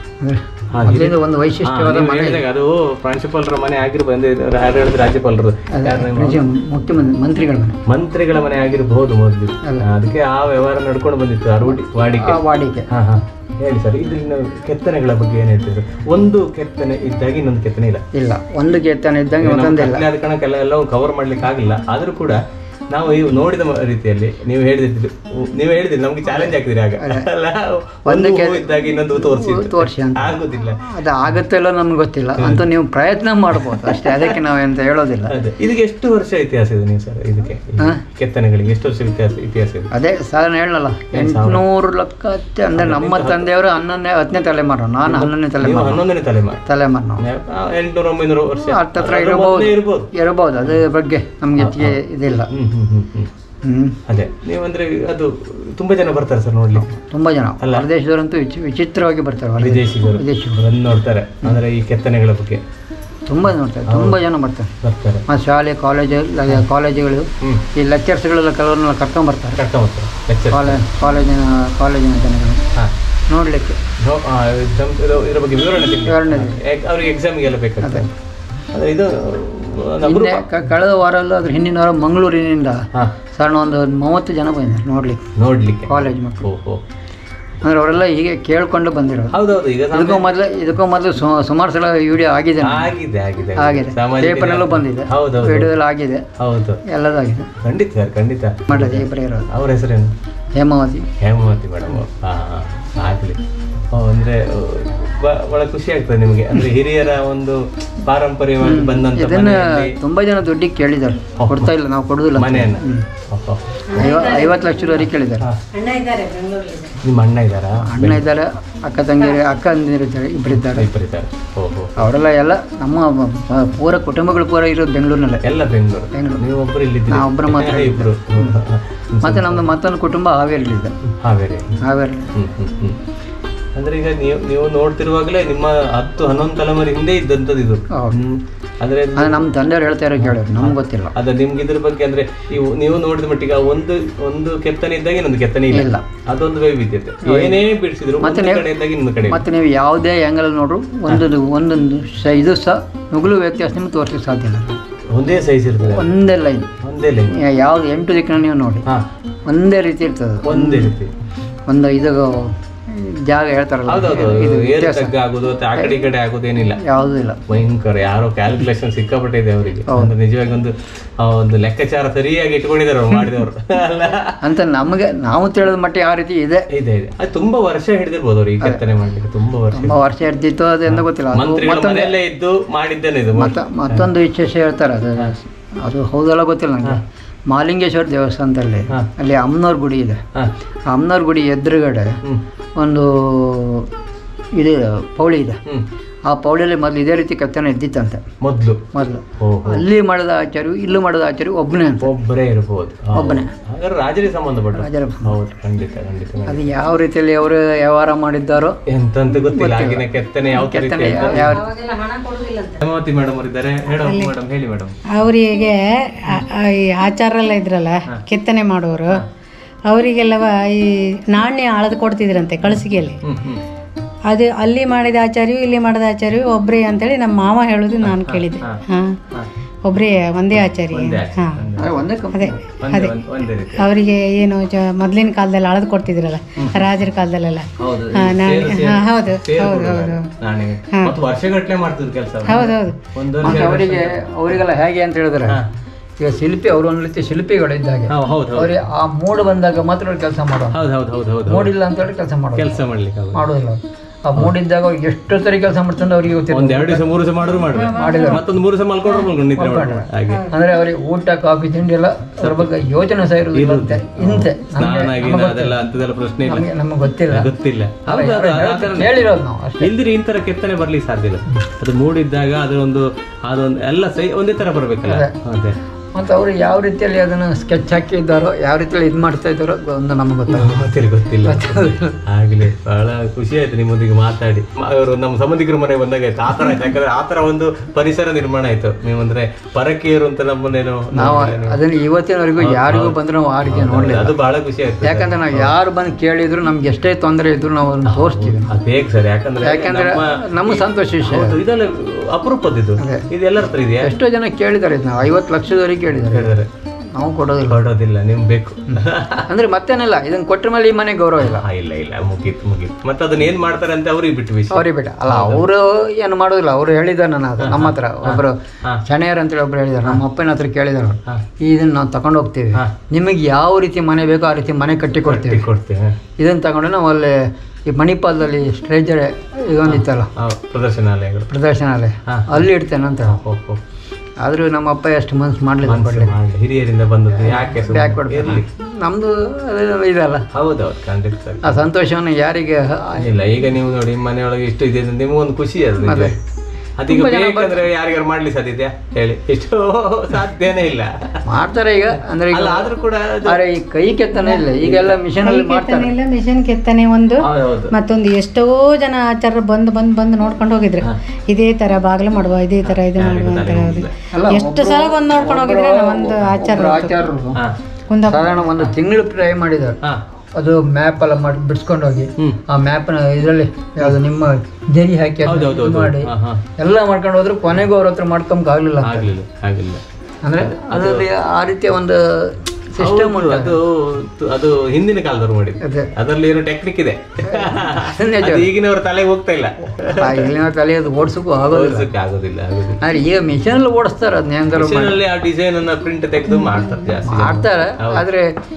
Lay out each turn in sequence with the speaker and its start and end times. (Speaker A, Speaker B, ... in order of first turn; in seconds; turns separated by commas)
Speaker A: 0.2-2.4, Speaker B: 0.7-6.4, Speaker A: 5.7-7.8, Speaker B: 7.9-18.0, Speaker A: 12.2-12.9, Speaker A: 18.1-20.1, Speaker B: 19.4-22.4, Speaker B: 22.9-30.9, Speaker A: 26.3-27.3, Speaker A: 28.1-35.3, Speaker B: 32.4-32.6, Speaker B: 33.5-34.4, Speaker B: 35.3-39.9, Speaker A: 39.9-46.0, Speaker B: 41.1-41.6, Speaker B: 42.8-43.5, Speaker B: 45.1-46.6, Speaker A: 46.7-47.2, Speaker B: 47.2-50.1, Speaker A: 48.7-52.5, Speaker B: 51.6-53.3, Speaker A: 53.6-54.0, Speaker B: 54.1-56.9, Speaker A: 56.8-60.6, Speaker B: 57.6-57.9, Speaker B: 59.6-62.6, Speaker A: 63.3-64.7, Speaker B: 63.9-64.2, Speaker B: 64.8-65.2, Speaker A: 65.3-69.6, Speaker B: 69.6-70.8, Speaker A: 70.5-72.6, Speaker A: 73.3-73.8, Speaker B: 74.0-78.1, Speaker A: 76.0-76.6, Speaker B: 78.7-80.5, Speaker A: 80.0-85.2, Speaker B: 85.4-86.8, Speaker A: 85.9-86.5, Speaker A: 87.6-89.4, Speaker B: 89.3-90.3, Speaker A: 89.9-92.9, Speaker B: 92.6-95.8, Speaker A: 93.6-96.2, Speaker B: 96.4-96.8, Speaker A: 96.9-97.5, Speaker B: 97.6-100.1, Speaker A: 98.7-99.5, Speaker A: 100.6-101.1, Speaker B: 101.2-103.4, Speaker B: 103.9-110.0, Speaker A: 108.6-113.1, Speaker B: 111.4-111.7, Speaker B: 112.3-113.8, Speaker C: 113.9-115.0, Speaker A: 113.9-115.5, Speaker C: 115.7-117.0, Speaker B: 117.0-118.2, Speaker A: 117.8-120.9, Speaker B: 120.5-121.9, Speaker A: 122.0-125.4, Speaker B: 125.4-129.7, Speaker A: 126.1-126.4, Speaker A: 127.1-128.6, Speaker A: 129.2-130.9, Speaker B: 131.2-131.8, Speaker A: 131.8-132.3, Speaker B: 132.3-133.0, Speaker B: 133.8-139.4, Speaker A: 139.2-141.1, Speaker B: 140.2-149.4, Speaker A: 145.7-146.0, Speaker A: 147.2-147.6, Speaker A: 148.2-148.7, Speaker A: 149.3-154.8, Speaker B: 155.1-156.2, Speaker A: 155.9-156.7, Speaker B: 156.8-157.4, Speaker A: 157.3-158.9, Speaker A: 159.5-161.0, Speaker B: 160.4-161.1, Speaker A: 161.7-165.1, Speaker B: 163.9-166.8, Speaker A: 166.8-167.4, Speaker B: 167.5-174.4, Speaker A: 174.4-176.7, Speaker B: 176.7-180.0, Speaker A: 179.7-182.2, Speaker B: 180.9-184.1, Speaker A: 183.4-190.2, Speaker A: 190.9-192.1, Speaker A: 192.8-193.9, Speaker A: 194.6-195.6, Speaker A: 196.3-198.2, Speaker B: 198.4-198.8, Speaker A: 198.9-202.1, Speaker B: 199.4-199.8, Speaker B: 202.0-206.8, Speaker A: 203.1-203.5, Speaker A: 204.7-205.3, Speaker A: 206.5-211.6, Speaker B: 208.9-211.6, Speaker C: 211.2-212.8, Speaker B: 212.8-215.1, Speaker C: 213.9-214.3, Speaker C: 215.1-219.2, Speaker C: 219.9-223.2, Speaker B: 223.2-223.6, Speaker C: 224.3-229.2, Speaker B: 228.0-228.8, Speaker C: 229.8-231.7, Speaker B: 230.5-233.9, Speaker A: 231.8-232.5, Speaker C: 232.3-233.1, Speaker C: 233.8-240.3, Speaker B: 236.6-236.8, Speaker B: 237.8-244.2, Speaker C: 242.5-242.9, Speaker A: 243.4-245.6, Speaker A: 246.2-250.8, Speaker B: 248.1-248.7, Speaker B: 250.7-251.8, Speaker A: 251.5-257.1, Speaker B: 252.6-253.5, Speaker B: 256.5-260.5, Speaker C: 257.6-258.4, Speaker A: 257.7-258.4, Speaker A: 259.6-265.8, Speaker B: 262.4-262.7, Speaker B: 263.5-266.7, Speaker A: 266.4-267.5, Speaker B: 267.3-275.8, Speaker A: 268.1-269.9, Speaker A: 275.1-275.4, Speaker A: 276.1-280.9, Speaker B: 280.5-291.8, Speaker A: 281.4-282.2, Speaker A: 291.1-294.4, Speaker B: 292.6-295.8, Speaker A: 295.0-298.8, Speaker B: 298.1-304.2, Speaker A: 299.6-301.6, Speaker A: 303.0-303.2, Speaker A: 304.0-306.5, Speaker B: 306.3-306.7, Speaker A: 307.2-307.8, Speaker B: 307.7-309.5, Speaker A: 309.5-311.7, Speaker B: 311.4-315.7, Speaker A: 314.7-325.7, Speaker B: 317.6-319.0, Speaker B: 325.2-326.2, Speaker A: 326.4-327.4, Speaker A: 327.9-330.3, Speaker B: 329.9-331.5, Speaker A: 331.5-333.4, Speaker B: 332.3-332.6, Speaker B: 333.2-333.8, Speaker A: 334.4-336.4, Speaker B: 335.9-338.6, Speaker A: 337.4-340.5, Speaker B: 340.5-341.9, Speaker A: 341.6-343.3, Speaker B: 343.1-346.3, Speaker A: 346.0-346.3, Speaker B: 347.0-351.4, Speaker A: 347.1-347.9, Speaker A: 351.4-352.9, Speaker B: 352.5-353.6, Speaker A: 353.4-356.1, Speaker B: 354.8-355.2, Speaker C: 355.4-367.1, Speaker B: 357.4-357.9, Speaker B: 362.8-364.1, Speaker A: 364.3-367.6, Speaker C: 368.1-368.6, Speaker A: 368.3-370.0, Speaker A: 370.6-379.3, Speaker B: 375.4-376.6, Speaker B: 379.0-380.0, Speaker A: 380.4-383.8, Speaker B: 380.6-381.3, Speaker B: 383.0-390.5, Speaker A: 385.8-386.1, Speaker A: 387.5-388.7, Speaker A: 390.1-392.1, Speaker B: 391.6-393.0, Speaker A: 393.0-395.2, Speaker B: 394.7-398.2, Speaker C: 396.6-397.2, Speaker A: 397.2-398.5